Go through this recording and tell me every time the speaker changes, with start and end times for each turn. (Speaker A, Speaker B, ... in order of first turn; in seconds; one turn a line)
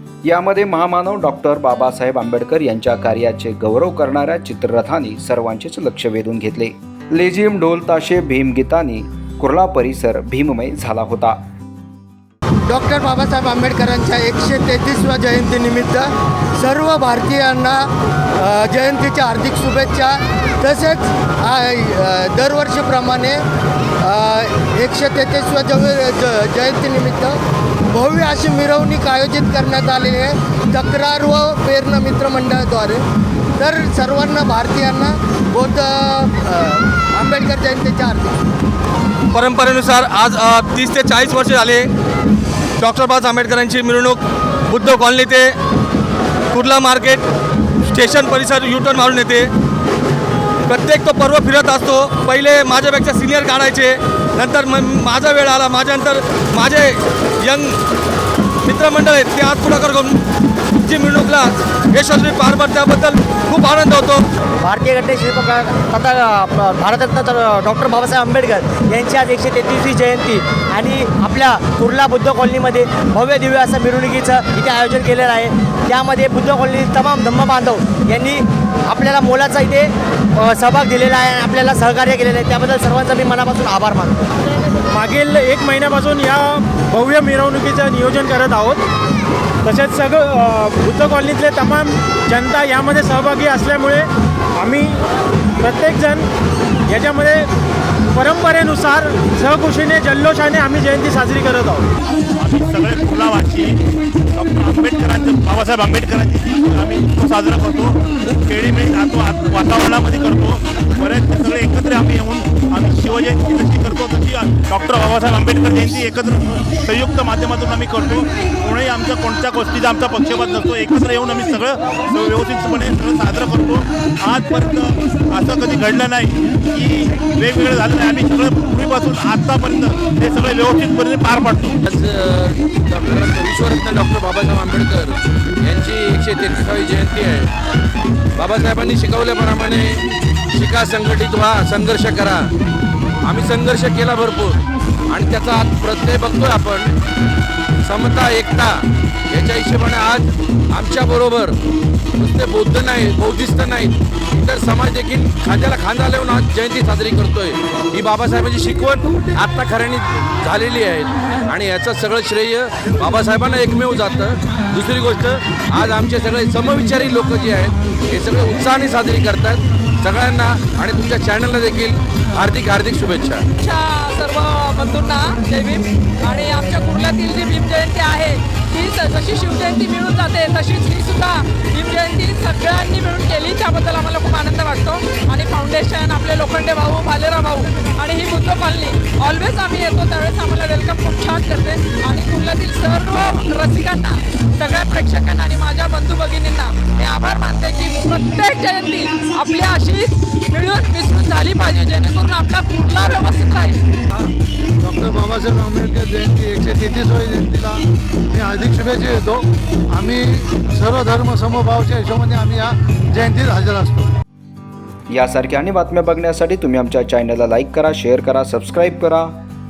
Speaker A: 0.2-11.4
Speaker B: 12.7-23.4
Speaker B: 24.0-27.4
Speaker B: 27.9-33.0
Speaker B: 33.6-38.4
Speaker C: 39.3-41.9
Speaker C: 42.8-45.6
Speaker C: 46.5-47.2
Speaker C: 47.9-49.5
Speaker C: 50.7-57.8
Speaker C: 58.6-60.2
Speaker C: 60.8-64.2
Speaker D: 64.6-84.4
Speaker E: 84.9-88.8
Speaker E: 89.6-95.0
Speaker E: 95.6-96.3
Speaker E: 96.9-97.5
Speaker E: 98.1-101.9
Speaker F: 102.4-131.8
Speaker G: 131.8-137.5
Speaker G: 138.4-142.5
Speaker G: 143.2-144.6
Speaker G: 145.1-147.0
Speaker G: 147.8-151.6
Speaker G: 152.2-173.5
Speaker H: 173.6-203.8
Speaker I: 204.8-214.1
Speaker A: 215.1-219.3